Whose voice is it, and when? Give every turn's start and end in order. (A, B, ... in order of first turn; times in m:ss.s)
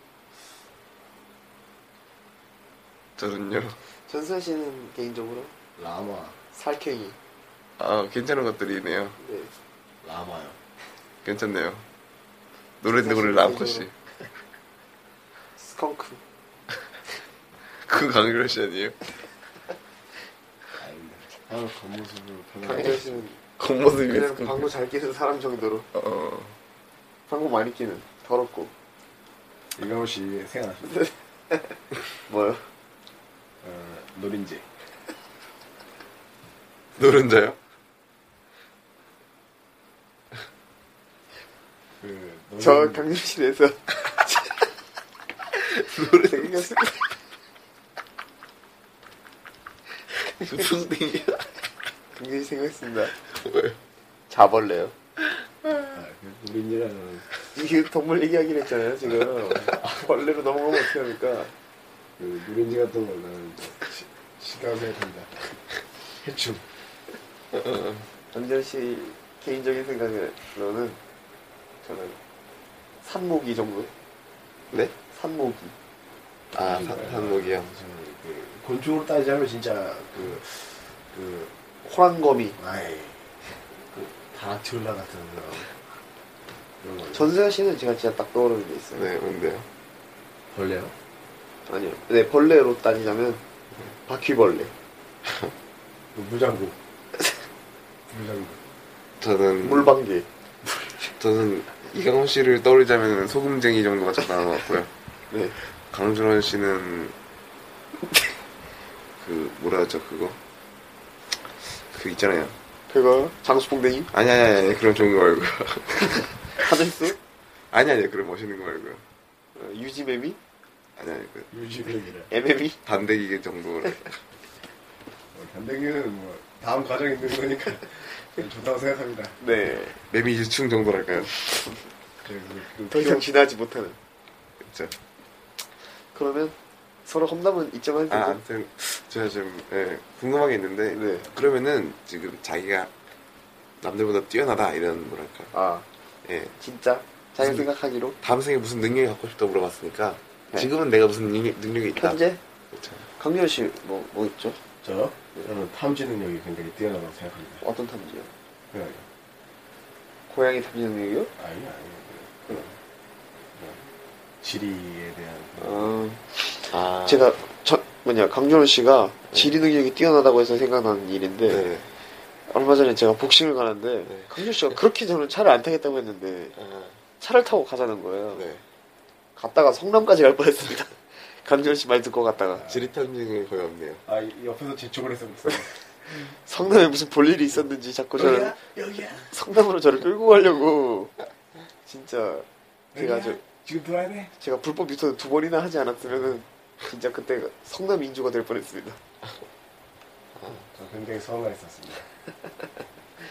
0:03.2-0:03.8 A
0:04.0-0:05.5 B
0:05.8-0:06.4 C
0:06.5-0:07.2 B
0:07.8-0:09.2 A
0:09.2-0:09.5 B
0:10.0-0:10.6 C
0:11.2-0:11.8 A
0:12.8-0:13.9 A
0:12.9-0:13.9 B
0:15.6-0:16.2 B
0:17.8-0:19.1 A
0:20.7-0:23.3 C
0:22.6-0:23.4 B
0:23.6-0:24.7 A
0:24.1-0:25.9 B
0:25.9-0:26.6 A
0:27.3-0:28.7 B
0:29.8-0:31.1 C
0:31.5-0:32.6 B
0:33.6-0:34.7 C
0:37.0-0:37.6 A
0:42.0-0:43.1 C
0:42.6-0:44.7 B
0:45.6-0:46.7 A
0:46.1-0:47.1 B
0:50.4-0:51.6 A
0:52.1-0:53.1 B
0:53.1-0:53.8 A
0:54.3-0:54.9 B
0:55.9-0:57.4 C
0:57.5-1:01.5 B
1:02.2-1:05.5 C
1:06.2-1:06.7 C
1:07.5-1:08.0 A
1:08.3-1:11.0 B
1:11.9-1:12.1 B
1:13.0-1:13.9 B
1:15.1-1:15.7 B
1:16.5-1:21.5 C
1:16.5-1:17.7 A
1:21.8-1:22.6 B
1:22.6-1:25.7 C
1:26.8-1:27.3 C
1:27.1-1:29.1 B
1:28.9-1:29.7 A
1:30.5-1:30.9 C
1:31.7-1:33.4 B
1:34.0-1:34.7 B
1:36.1-1:36.8 C
1:38.1-1:38.6 C
1:39.2-1:39.9 A
1:39.6-1:40.3 B
1:41.2-1:44.9 A
1:45.3-1:45.6 B
1:45.8-1:47.1 A
1:49.2-1:50.4 A
1:51.7-1:52.5 A
1:52.9-1:54.1 B
1:54.1-1:56.5 A
1:56.6-1:57.2 B
1:57.7-1:59.0 A
1:59.5-2:00.4 B
2:01.0-2:01.5 A
2:01.5-2:02.3 C
2:02.3-2:02.8 B
2:02.8-2:04.2 A
2:05.3-2:09.4 C
2:09.4-2:10.0 B
2:10.1-2:11.6 A
2:12.2-2:13.3 C
2:12.9-2:14.0 B
2:14.6-2:14.9 A
2:16.0-2:18.4 B
2:18.1-2:22.9 A
2:20.9-2:21.3 B
2:23.8-2:25.5 A
2:25.5-2:25.9 B
2:26.2-2:26.6 A
2:26.6-2:28.2 B
2:27.4-2:27.6 A
2:28.2-2:32.2 A
2:32.0-2:32.4 B
2:32.7-2:33.0 A
2:33.1-2:34.6 B
2:34.8-2:37.6 C
2:37.6-2:38.3 B
2:38.7-2:39.0 C
2:40.3-2:41.3 B
2:41.4-2:42.8 C
2:43.5-2:43.8 C
2:44.4-2:46.0 C
2:45.6-2:46.3 B
2:46.7-2:47.3 A
2:47.0-2:51.6 B
2:51.5-2:51.9 A
2:52.5-2:56.6 B
2:54.0-2:54.8 A
2:56.5-2:57.0 A
2:57.2-2:58.4 B
2:58.3-2:58.6 A
2:59.4-3:02.6 B
3:02.5-3:02.9 C
3:02.6-3:04.0 A
3:04.0-3:06.3 C
3:06.1-3:08.6 B
3:08.2-3:09.3 C
3:09.3-3:11.1 B
3:11.8-3:13.4 B
3:12.9-3:14.3 C
3:14.4-3:19.0 B
3:20.5-3:22.0 C